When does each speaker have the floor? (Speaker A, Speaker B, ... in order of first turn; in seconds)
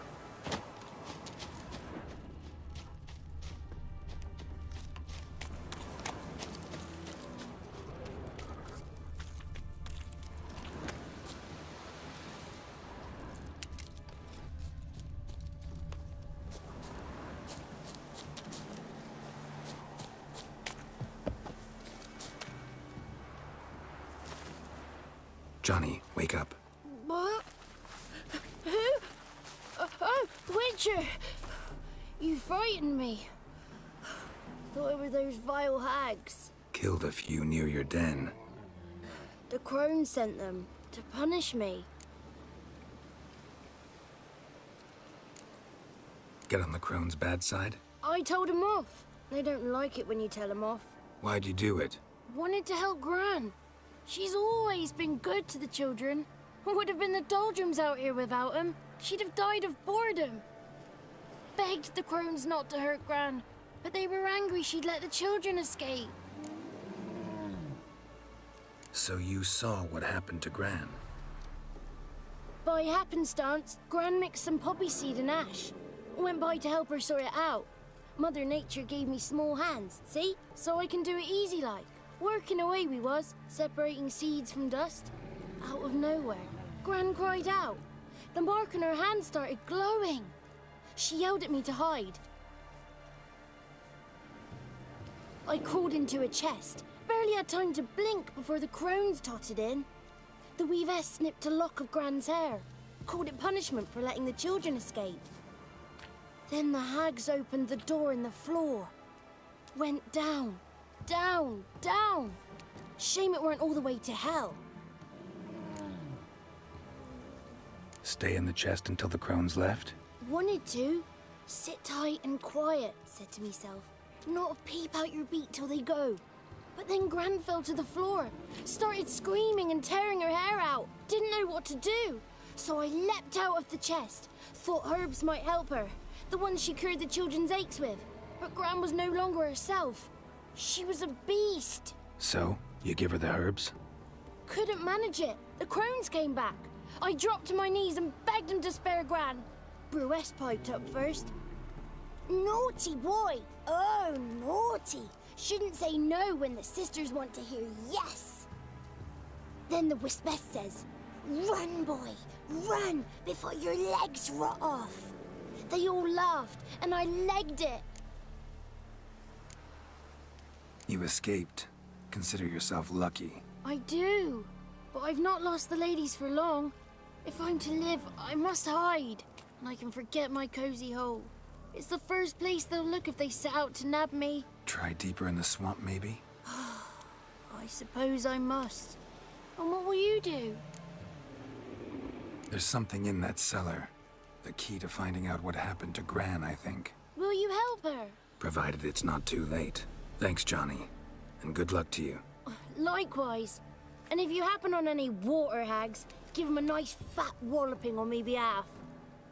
Speaker A: 25.6-26.6, 36.7-38.3, 46.5-47.8, 51.2-52.0, 68.9-71.0, 118.0-120.0, 142.2-143.7, 170.9-173.4, 184.7-186.2, 192.5-196.9, 198.4-202.2
Speaker B: 26.8-27.4, 28.6-29.1, 29.8-31.6, 32.2-33.3, 34.7-36.5, 39.5-41.9, 48.0-50.9, 52.3-53.5, 54.0-60.4, 61.5-66.1, 72.6-90.3, 91.0-92.2, 95.4-99.9, 100.6-105.2, 106.5-108.9, 109.7-112.4, 113.0-114.6, 120.2-126.2, 126.8-142.0, 144.5-151.3, 152.3-158.5, 159.7-165.1, 165.7-167.8, 173.6-176.7, 177.2-184.5, 186.4-189.0, 189.6-190.6, 197.1-198.2, 202.5-208.8